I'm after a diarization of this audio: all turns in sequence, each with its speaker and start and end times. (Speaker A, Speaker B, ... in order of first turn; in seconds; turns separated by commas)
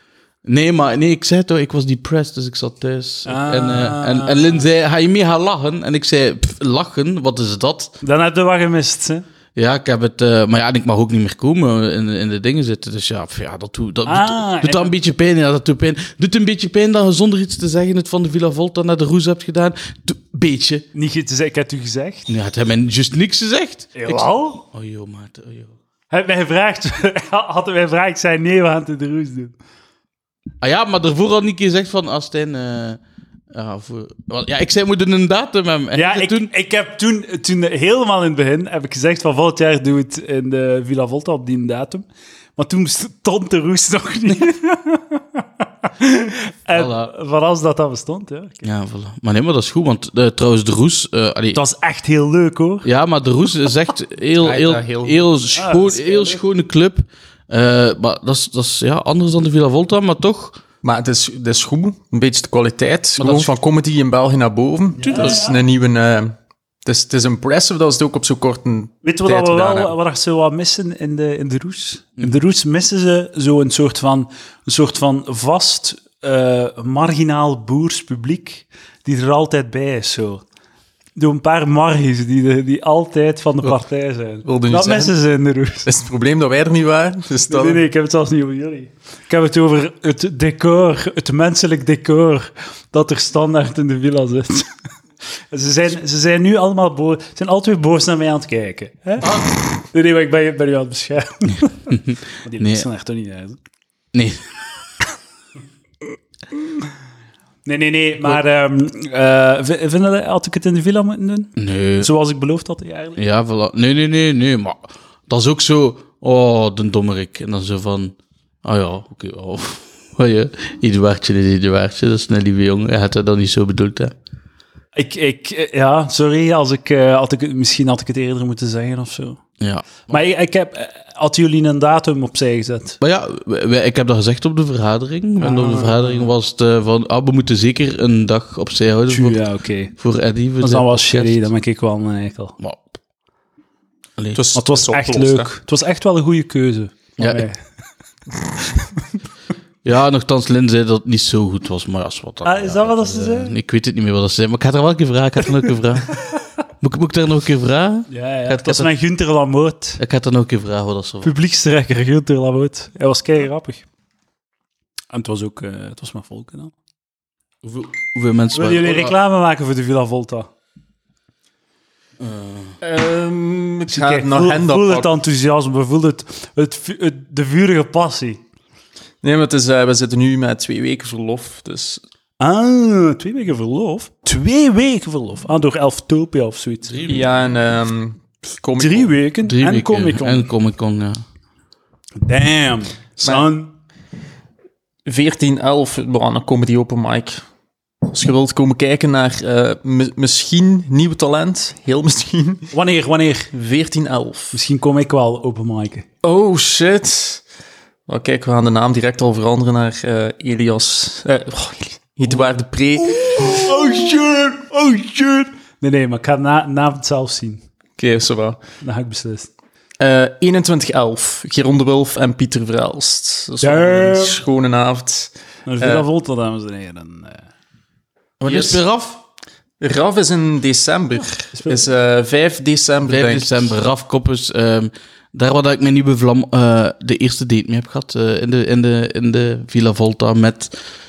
Speaker A: 0.4-8.0, Speaker B: 3.2-4.6, Speaker B: 8.0-9.2, Speaker A: 9.6-20.9, Speaker B: 14.1-14.9, Speaker B: 20.9-22.3, Speaker A: 22.3-25.7, Speaker B: 23.9-24.6, Speaker B: 26.1-29.5, Speaker A: 30.6-33.0, Speaker A: 33.5-36.5, Speaker B: 35.9-48.6, Speaker A: 46.7-47.1, Speaker A: 48.6-51.6, Speaker B: 51.5-52.9, Speaker A: 52.8-60.6, Speaker C: 54.4-55.2, Speaker B: 55.5-56.4, Speaker C: 60.8-69.9, Speaker A: 63.2-63.5, Speaker B: 65.0-65.6, Speaker B: 69.0-80.4, Speaker B: 81.2-85.9, Speaker C: 84.4-85.2, Speaker C: 85.8-87.8, Speaker B: 87.5-94.7, Speaker B: 95.5-103.6, Speaker A: 99.2-99.5, Speaker A: 101.9-102.8, Speaker A: 104.1-104.5, Speaker B: 107.7-113.2, Speaker A: 111.6-112.1, Speaker A: 113.2-124.1, Speaker B: 124.9-129.4, Speaker A: 129.6-130.2, Speaker B: 130.1-133.0, Speaker A: 133.0-139.4, Speaker B: 135.4-136.3, Speaker B: 139.1-139.9, Speaker A: 139.9-141.5, Speaker B: 140.6-142.6, Speaker A: 142.6-142.9, Speaker C: 144.3-145.5, Speaker B: 144.5-147.6, Speaker A: 147.2-147.4, Speaker A: 149.8-156.2, Speaker B: 152.4-153.5, Speaker A: 156.8-158.9, Speaker B: 158.1-160.0, Speaker A: 160.0-161.3, Speaker B: 161.2-163.8, Speaker B: 165.1-166.7, Speaker A: 167.6-169.2, Speaker B: 168.5-170.5, Speaker A: 172.2-172.8, Speaker C: 172.8-175.1, Speaker B: 173.9-178.4, Speaker C: 179.2-182.0, Speaker B: 182.4-187.0, Speaker A: 186.9-187.6, Speaker C: 187.1-189.1, Speaker B: 188.8-190.5, Speaker A: 189.4-191.2, Speaker B: 192.2-193.7, Speaker C: 195.1-197.4, Speaker C: 198.0-202.7, Speaker B: 202.7-203.5, Speaker C: 203.5-204.6, Speaker B: 204.5-206.0, Speaker C: 206.2-207.4, Speaker C: 208.1-213.8, Speaker B: 213.1-217.6, Speaker C: 218.0-218.6, Speaker B: 218.8-219.5, Speaker C: 220.0-226.0, Speaker B: 223.6-224.4, Speaker B: 225.7-227.5, Speaker A: 228.4-229.2, Speaker C: 228.4-228.8, Speaker C: 229.8-233.6, Speaker B: 231.5-231.8, Speaker A: 233.1-240.7